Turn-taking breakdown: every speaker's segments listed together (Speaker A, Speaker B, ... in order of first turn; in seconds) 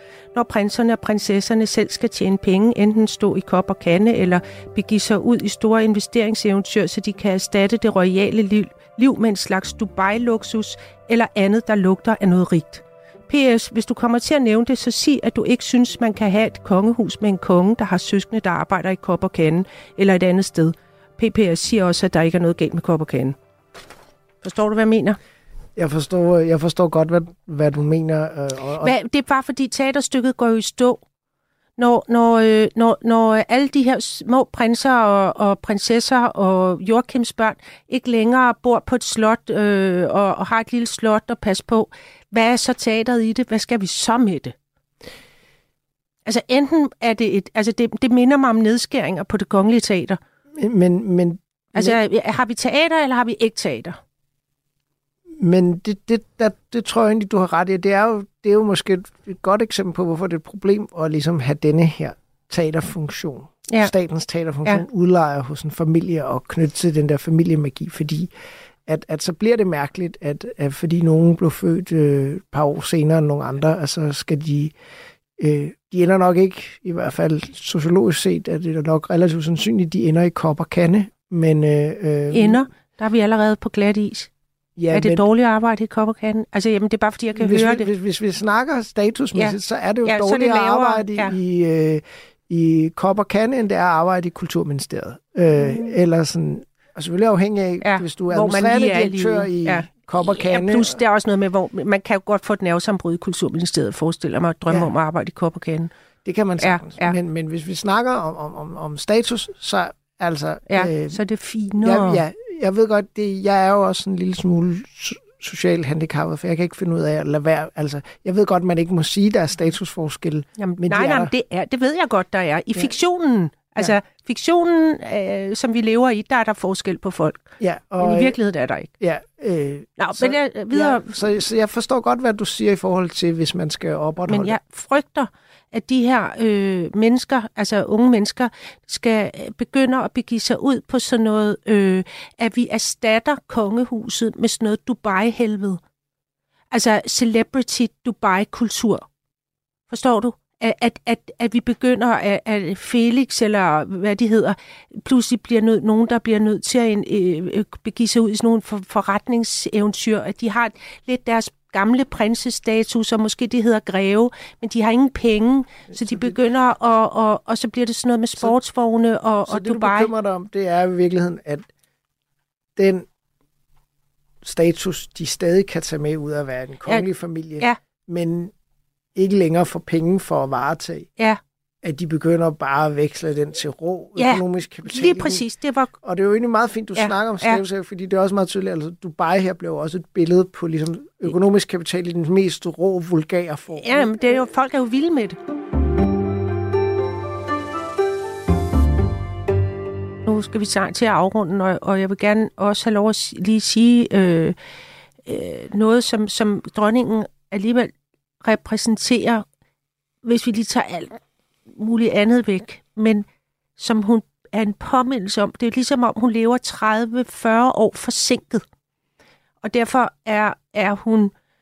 Speaker A: 0.3-23.4, 24.4-25.2, 28.8-31.0, 31.8-44.5, 46.2-50.2, 51.8-54.0, 82.3-84.3, 84.9-87.9, 89.3-91.3, 95.6-95.9, 97.8-105.9, 106.6-107.2, 110.7-112.2, 120.6-128.9, 130.0-131.2, 134.3-145.8, 146.7-149.1, 149.9-170.1, 184.2-185.9, 187.0-187.6, 193.8-195.4, 200.2-204.6, 205.3-209.4, 210.2-213.3, 213.8-218.6, 219.6-221.3
Speaker B: 25.8-28.9, 50.6-52.0, 55.4-68.3, 68.9-74.7, 75.4-82.7, 84.8-85.2, 87.4-101.0, 106.2-111.2, 111.8-121.3, 127.6-128.4, 129.0-134.6, 165.9-166.4, 169.5-171.7, 172.8-173.1, 174.4-178.5, 179.2-181.1, 181.8-185.4, 186.0-194.2